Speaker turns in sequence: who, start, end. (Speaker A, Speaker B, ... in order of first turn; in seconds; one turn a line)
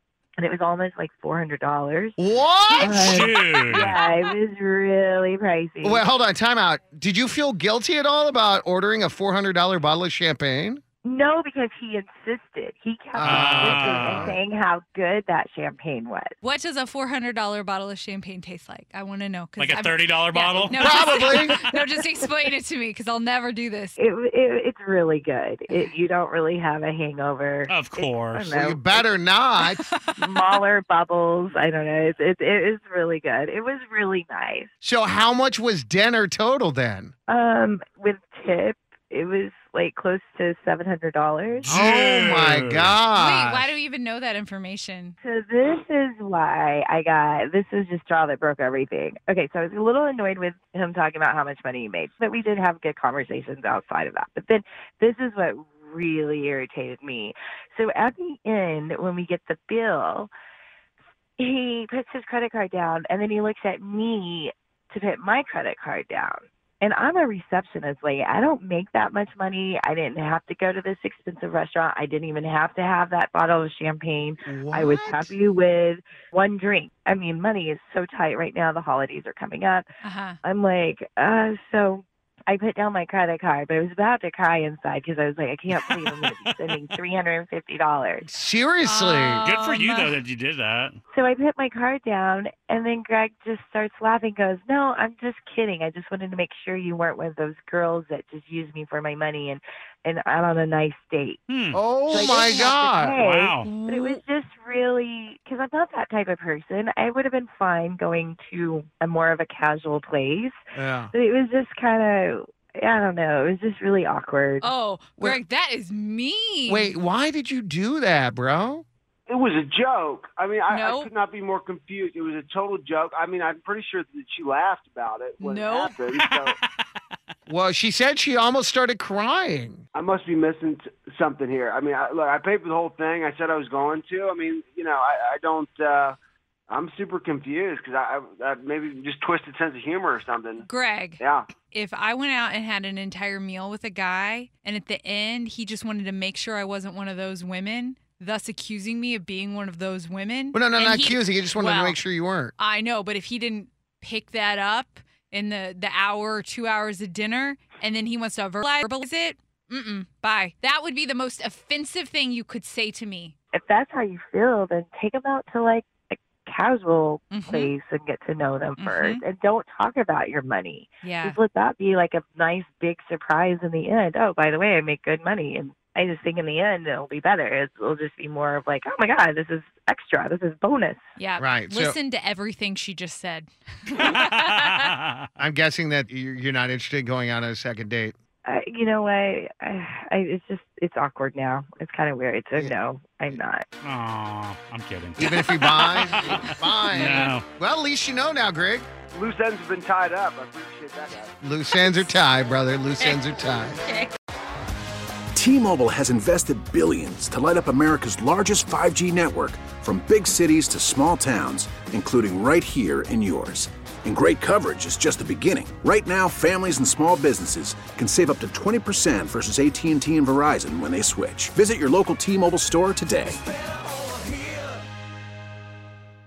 Speaker A: 0.4-2.2
Speaker B: 2.2-3.3
Speaker A: 2.8-6.0
Speaker C: 2.8-4.0
Speaker B: 5.8-10.8
Speaker A: 11.0-16.3
Speaker B: 13.2-14.3
Speaker C: 13.2-14.3
Speaker D: 16.4-24.0
Speaker C: 19.6-21.9
Speaker B: 20.8-21.6
Speaker A: 24.0-29.1
Speaker C: 27.7-28.6
Speaker B: 28.5-29.9
Speaker D: 29.7-30.4
Speaker A: 30.2-34.7
Speaker B: 34.8-37.1
Speaker A: 37.3-41.7
Speaker C: 41.6-43.0
Speaker B: 41.7-43.7
Speaker D: 43.1-45.1
Speaker A: 45.2-60.3
Speaker A: 61.4-79.9
Speaker B: 74.5-75.3
Speaker D: 80.0-80.4
Speaker A: 80.4-88.3
Speaker B: 88.3-89.5
Speaker D: 88.8-90.2
Speaker C: 89.5-91.0
Speaker A: 91.1-101.4
Speaker C: 101.5-101.8
Speaker B: 101.7-103.2
Speaker A: 102.1-110.6
Speaker C: 103.2-103.7
Speaker D: 103.6-104.2
Speaker B: 110.7-111.1
Speaker A: 111.1-114.7
Speaker D: 114.6-117.0
Speaker B: 116.7-118.8
Speaker E: 119.3-125.8
Speaker D: 120.7-121.1
Speaker D: 125.4-126.0
Speaker C: 126.1-126.7
Speaker B: 127.5-129.8
Speaker E: 130.0-136.2
Speaker E: 136.7-140.6
Speaker D: 140.6-152.0
Speaker B: 150.5-152.5
Speaker D: 152.6-163.3
Speaker A: 163.5-181.0
Speaker D: 167.3-167.7
Speaker D: 168.8-169.2
Speaker D: 171.0-171.4
Speaker D: 181.2-184.8
Speaker B: 181.4-182.0
Speaker C: 184.1-185.0
Speaker B: 185.4-188.2
Speaker A: 188.4-193.7
Speaker C: 193.8-197.4
Speaker B: 195.2-198.9
Speaker E: 199.2-201.3
Speaker B: 201.4-203.8
Speaker F: 205.3-223.4